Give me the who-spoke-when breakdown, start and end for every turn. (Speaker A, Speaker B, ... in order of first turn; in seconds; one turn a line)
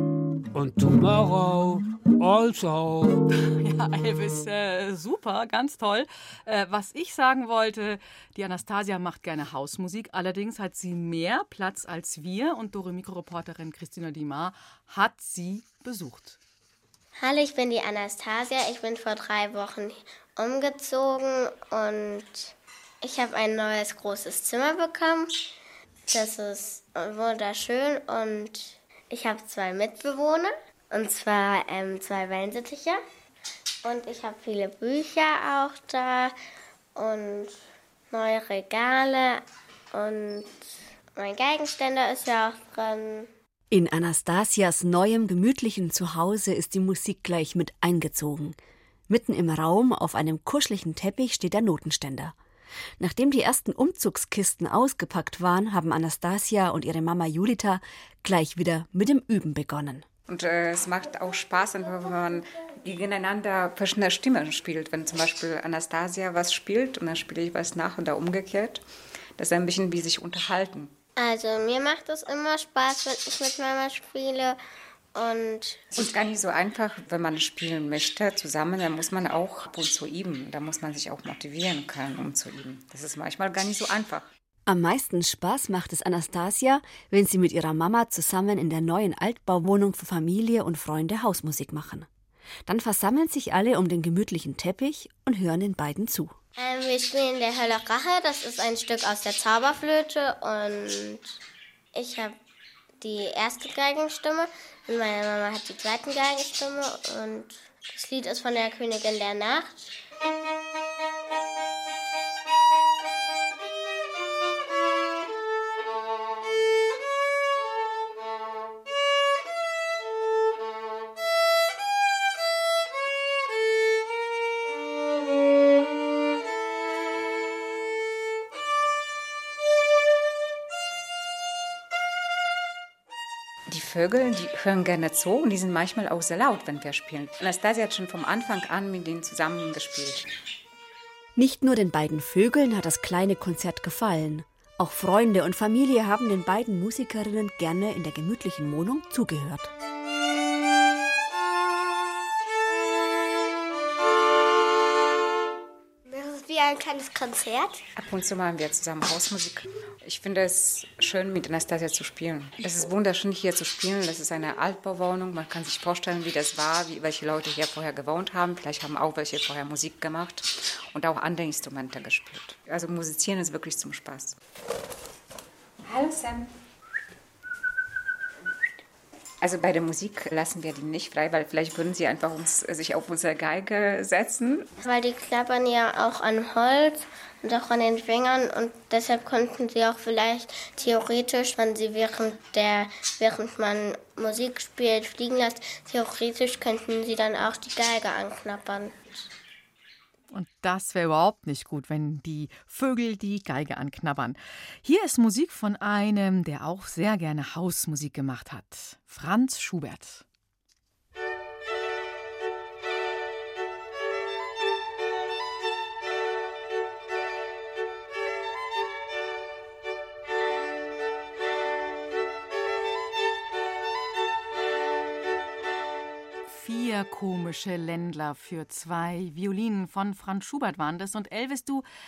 Speaker A: 0.5-3.2
Speaker B: 3.4-16.4
Speaker C: 17.2-25.5
Speaker C: 26.1-33.0
Speaker C: 33.8-36.3
Speaker C: 37.0-37.6
Speaker C: 38.1-43.3
Speaker D: 43.7-48.6
Speaker D: 49.1-52.3
Speaker D: 53.0-60.0
Speaker E: 60.3-70.9
Speaker C: 71.2-74.6
Speaker C: 75.1-75.8
Speaker E: 75.9-84.3
Speaker D: 84.7-92.1
Speaker D: 92.7-96.3
Speaker C: 96.6-101.4
Speaker C: 101.9-102.4
Speaker C: 103.0-110.0
Speaker E: 133.7-140.3
Speaker D: 141.3-149.7
Speaker C: 156.1-157.8
Speaker E: 158.0-174.4
Speaker E: 175.8-176.5
Speaker E: 179.4-184.7
Speaker C: 184.8-199.2
Speaker B: 200.3-210.2
Speaker B: 226.5-231.9